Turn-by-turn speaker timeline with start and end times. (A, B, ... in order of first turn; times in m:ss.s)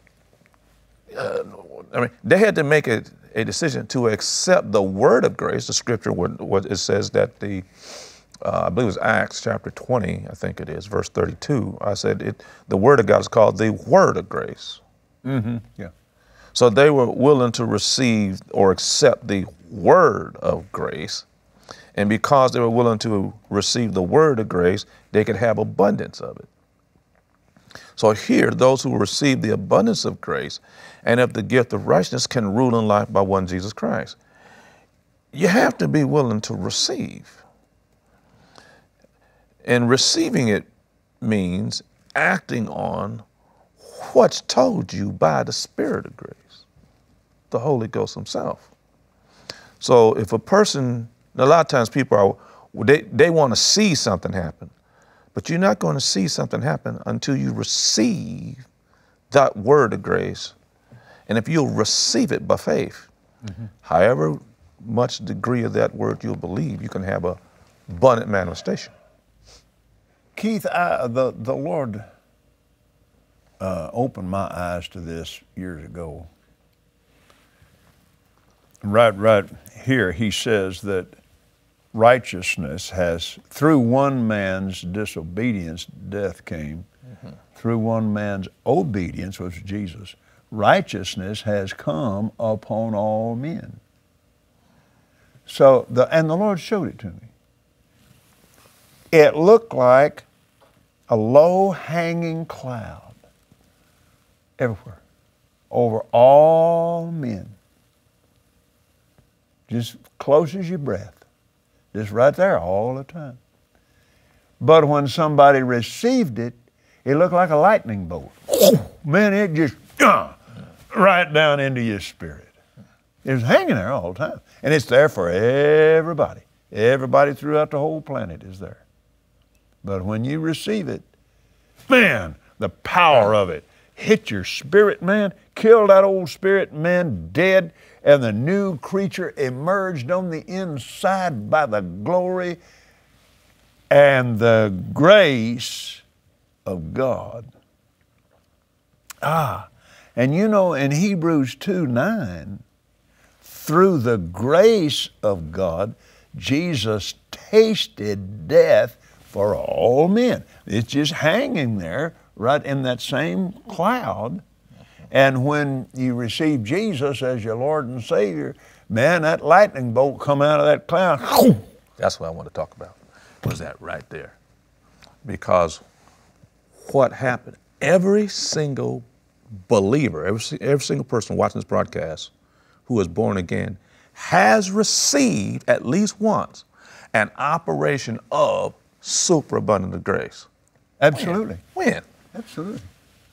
0:01.1-0:07.7 A
0:08.4-0:14.8 A
0:15.2-0:15.9 B
0:16.5-0:21.2 A
0:21.9-0:26.5 A
0:28.0-0:34.2 A
0:35.3-0:37.4 A
0:39.6-0:40.7 A
0:41.2-0:43.2 A
0:43.8-0:46.6 A
0:47.5-0:48.7 A
0:49.8-0:54.7 A
0:55.3-0:58.6 A
0:59.3-1:00.5 A
1:01.3-1:03.1 A
1:03.8-1:08.9 A
1:10.3-1:12.0 B
1:13.6-1:16.3 B
1:18.8-1:21.2 B
1:21.9-1:26.8 B
1:27.5-1:33.8 B
1:35.5-1:37.3 B
1:39.1-1:40.2 B
1:41.1-1:43.1 B
1:44.6-1:45.0 B
1:45.7-1:47.6 B
1:49.7-1:51.2 B
1:51.9-1:53.4 B
1:54.6-2:00.4 B
2:00.9-2:02.5 B
2:03.2-2:08.8 B
2:09.8-2:11.0 B
2:11.9-2:22.6 B
2:23.9-2:26.0 B
2:26.6-2:27.5 B
2:29.2-2:32.6 B
2:33.4-2:44.4 B
2:45.1-2:51.6 B
2:52.0-2:54.4 A
2:55.2-2:55.8 A
2:56.8-2:59.0 A
2:59.7-3:02.3 A
3:02.8-3:10.5 A
3:11.0-3:11.6 B
3:11.7-3:12.0 A
3:12.3-3:12.9 B